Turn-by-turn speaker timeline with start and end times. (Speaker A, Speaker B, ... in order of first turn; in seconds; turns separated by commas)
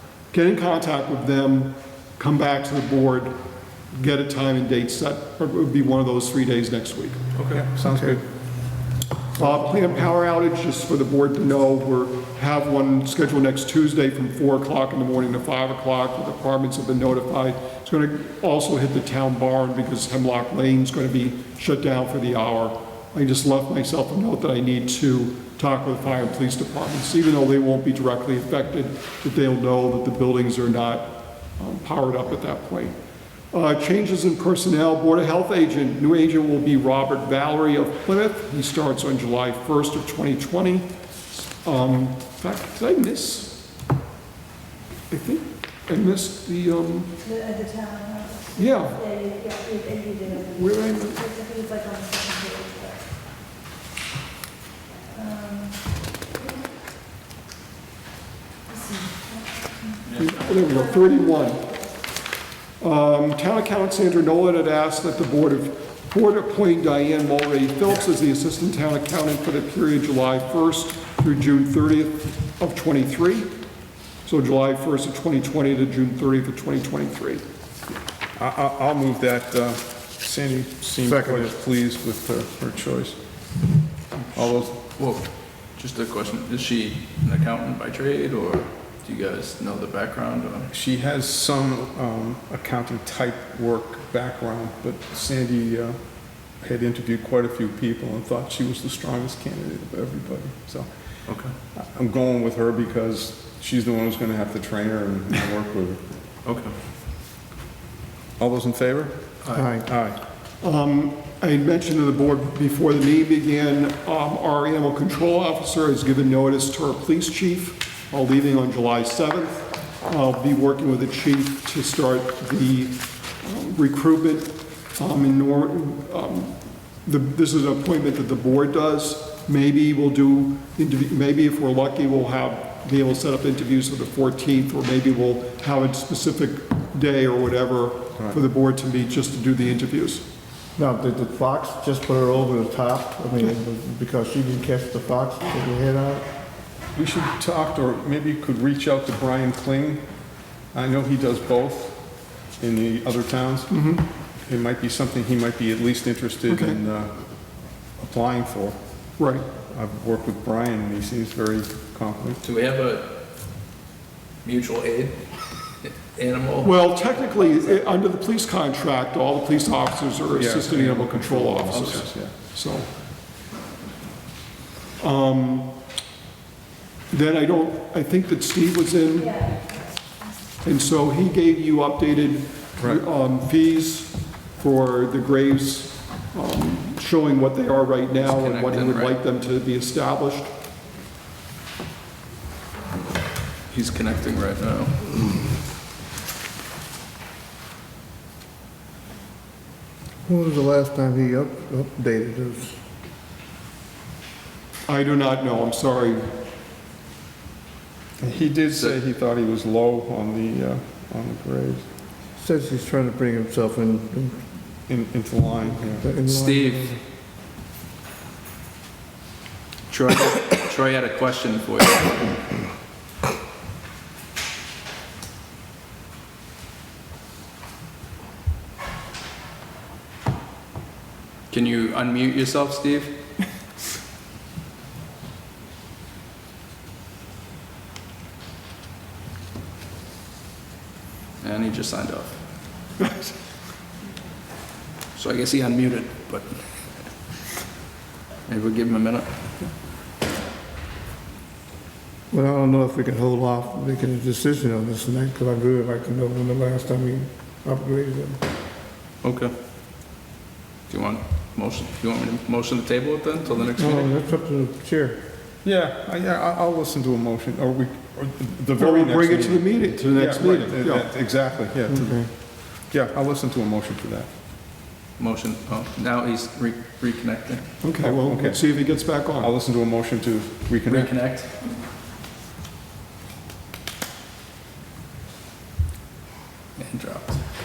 Speaker A: 0.3-3.3, Speaker A: 3.9-7.2, Speaker B: 7.4-8.2, Speaker C: 7.8-8.2, Speaker A: 9.3-32.9, Speaker C: 9.4-9.9, Speaker A: 33.5-43.6, Speaker A: 45.1-47.1, Speaker D: 47.2-53.0, Speaker A: 48.5-49.0, Speaker A: 50.3-51.3, Speaker D: 55.1-55.8, Speaker A: 60.1-61.7, Speaker A: 62.8-73.5, Speaker A: 74.2-77.4, Speaker B: 78.3-83.2, Speaker C: 81.0-81.5, Speaker E: 84.3-90.7, Speaker B: 84.3-84.7, Speaker B: 90.7-100.9, Speaker E: 101.3-101.5, Speaker B: 101.7-106.0, Speaker E: 106.4-106.7, Speaker B: 108.4-110.2, Speaker C: 109.5-109.8, Speaker A: 110.6-140.2, Speaker C: 140.8-146.2, Speaker B: 146.9-150.0, Speaker B: 150.7-152.0, Speaker B: 152.6-153.8, Speaker A: 153.7-154.0, Speaker B: 154.4-157.2, Speaker A: 156.5-156.8, Speaker B: 158.0-158.8, Speaker A: 159.2-159.4, Speaker B: 159.7-162.4, Speaker E: 162.4-163.2, Speaker E: 164.4-165.2, Speaker E: 165.8-167.8, Speaker A: 166.6-172.9, Speaker B: 170.3-172.3, Speaker E: 171.7-172.0, Speaker A: 175.0-175.7, Speaker A: 177.1-179.5, Speaker A: 180.6-190.5, Speaker E: 188.2-189.2, Speaker E: 193.7-195.0, Speaker C: 200.2-202.8, Speaker A: 204.9-206.3, Speaker B: 208.2-211.8, Speaker C: 212.4-214.4, Speaker B: 214.9-216.1, Speaker C: 215.9-217.0, Speaker E: 216.2-216.9, Speaker E: 219.9-222.2, Speaker E: 231.5-233.1, Speaker E: 241.4-242.4, Speaker E: 245.1-247.1, Speaker E: 248.5-249.3, Speaker C: 252.3-258.4, Speaker E: 259.2-259.5, Speaker E: 260.9-264.1, Speaker C: 263.8-265.2, Speaker B: 265.6-272.3, Speaker A: 268.8-271.1, Speaker C: 271.9-272.3, Speaker B: 272.8-274.3, Speaker E: 275.2-277.6, Speaker A: 277.8-279.5, Speaker B: 278.0-281.2, Speaker E: 280.9-281.5, Speaker E: 286.8-287.4